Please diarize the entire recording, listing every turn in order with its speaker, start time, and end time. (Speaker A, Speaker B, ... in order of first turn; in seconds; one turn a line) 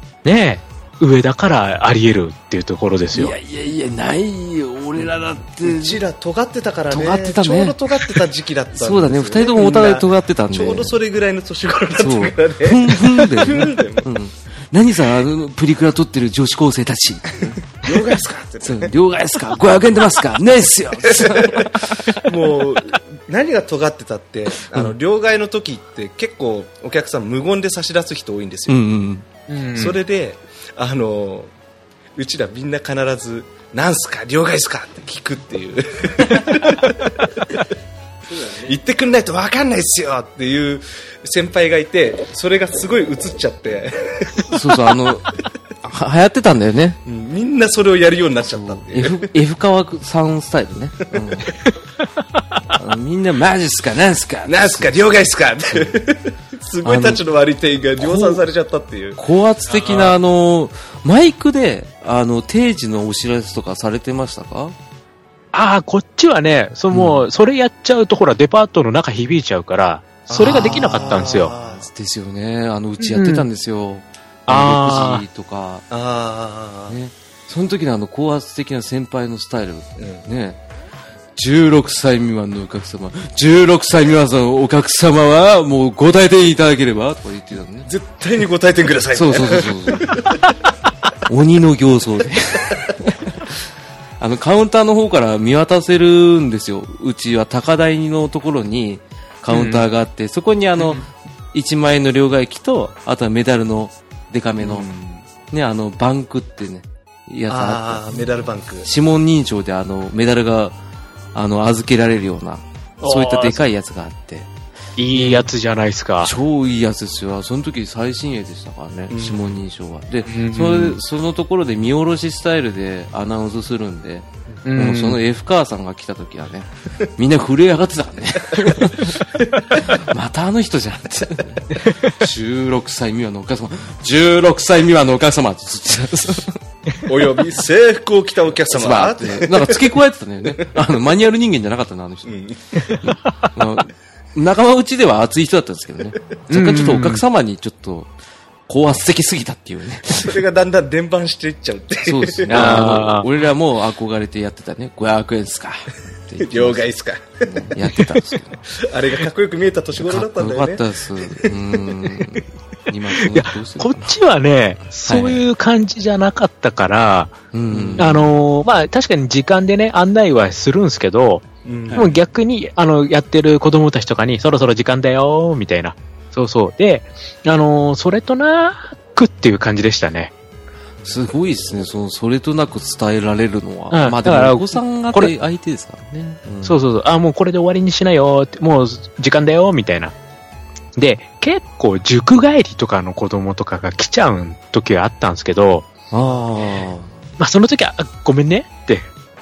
Speaker A: 0.2-3.3
Speaker B: 3.1-6.0
Speaker C: 5.0-14.1
Speaker B: 6.9-10.9
Speaker B: 12.0-17.7
Speaker C: 17.7-18.9
Speaker B: 18.6-22.2
Speaker C: 21.0-28.8
Speaker B: 28.7-29.2
Speaker A: 29.5-30.0
Speaker C: 29.7-31.5
Speaker C: 32.1-37.5
Speaker C: 38.3-44.7
Speaker B: 44.5-47.0
Speaker C: 47.0-49.3
Speaker B: 48.5-51.6
Speaker B: 52.7-55.0
Speaker C: 54.5-59.2
Speaker B: 56.8-57.2
Speaker B: 58.0-58.4
Speaker B: 59.2-64.8
Speaker A: 59.7-60.1
Speaker A: 65.5-71.5
Speaker B: 66.9-67.3
Speaker C: 70.3-71.9
Speaker B: 70.4-75.9
Speaker A: 73.0-73.5
Speaker A: 74.5-75.2
Speaker C: 75.9-77.0
Speaker B: 76.9-80.6
Speaker C: 80.0-80.2
Speaker B: 81.4-87.9
Speaker C: 87.9-90.4
Speaker B: 89.1-90.3
Speaker B: 91.3-93.3
Speaker B: 94.2-104.9
Speaker A: 99.5-99.9
Speaker C: 104.6-105.2
Speaker B: 105.5-108.2
Speaker C: 107.5-108.9
Speaker B: 108.8-110.8
Speaker B: 111.3-114.5
Speaker A: 113.0-113.7
Speaker A: 115.0-116.3
Speaker B: 115.2-115.5
Speaker B: 116.2-136.6
Speaker C: 119.1-119.6
Speaker A: 120.3-121.0
Speaker A: 124.7-125.2
Speaker C: 128.6-129.8
Speaker A: 131.7-132.2
Speaker C: 137.1-140.0
Speaker B: 138.7-142.4
Speaker C: 142.2-142.6
Speaker A: 142.8-143.5
Speaker B: 143.0-148.1
Speaker A: 146.5-147.2
Speaker B: 148.7-150.4
Speaker C: 150.1-152.9
Speaker B: 152.1-156.9
Speaker A: 152.5-153.3
Speaker C: 156.4-157.8
Speaker B: 157.4-158.7
Speaker C: 158.7-162.4
Speaker B: 160.0-164.1
Speaker A: 163.1-167.4
Speaker B: 165.1-165.4
Speaker B: 167.5-168.3
Speaker C: 167.7-168.1
Speaker A: 168.0-180.3
Speaker C: 171.7-172.1
Speaker B: 171.9-172.2
Speaker B: 181.0-186.8
Speaker A: 183.9-185.3
Speaker A: 186.6-190.2
Speaker A: 191.0-195.9
Speaker B: 196.1-197.1
Speaker A: 197.4-199.1